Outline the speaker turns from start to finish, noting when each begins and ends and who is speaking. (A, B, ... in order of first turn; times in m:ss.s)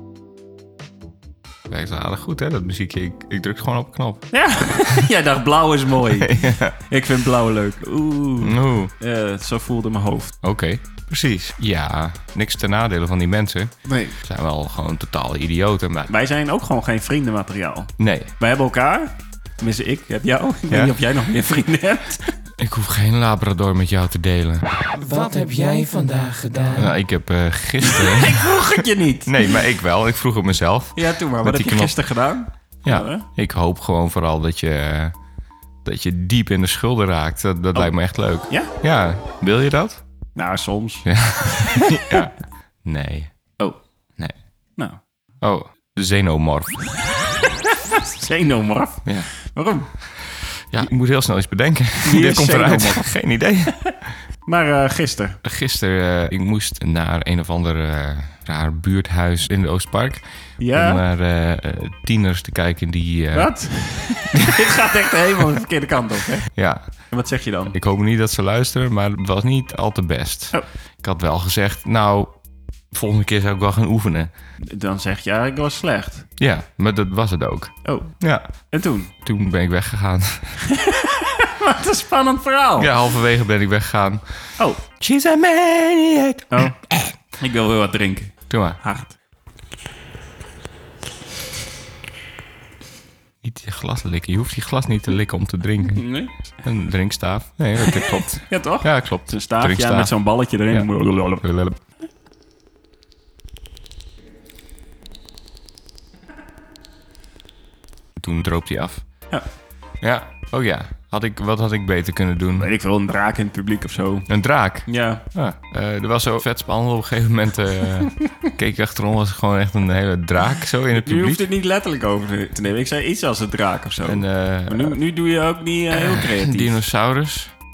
0:01.7-0:04.3 A
0:04.3-0:10.4 B
0:06.2-0:06.8 A
0:08.4-0:08.9 A
0:10.4-0:16.1 A
0:13.8-0:14.2 B
0:16.1-0:22.3 B
0:18.0-0:18.3 A
0:20.7-0:21.0 A
0:22.5-0:24.6 A
0:24.9-0:26.9 C
0:26.8-0:28.6 A
0:28.0-0:29.6 B
0:29.2-0:32.0 A
0:31.0-0:33.2 B
0:32.8-0:35.2 A
0:35.8-0:40.0 A
0:37.7-0:38.7 B
0:40.3-0:42.0 B
0:41.0-0:43.5 A
0:45.4-0:46.9 A
0:48.2-0:50.2 B
0:49.0-0:49.3 A
0:49.9-0:54.2 A
0:52.0-0:53.1 B
0:54.4-0:55.4 B
0:55.4-1:03.6 A
1:00.6-1:01.0 B
1:03.3-1:06.5 B
1:06.5-1:07.1 A
1:07.1-1:07.8 B
1:07.7-1:12.4 A
1:12.9-1:14.3 A
1:14.6-1:16.3 B
1:16.4-1:18.5 A
1:17.8-1:19.1 B
1:19.2-1:20.6 A
1:20.7-1:22.9 B
1:22.8-1:27.1 A
1:26.5-1:29.2 B
1:28.5-1:28.8 A
1:33.4-1:40.1 A
1:35.9-1:36.3 B
1:38.5-1:41.4 B
1:41.4-1:41.8 A
1:48.2-1:49.3 A
1:50.0-1:52.7 A
1:52.6-1:54.3 B
1:54.3-2:01.4 A
1:54.8-1:55.2 B
2:00.9-2:06.8 B
2:04.0-2:05.0 A
2:05.9-2:07.5 A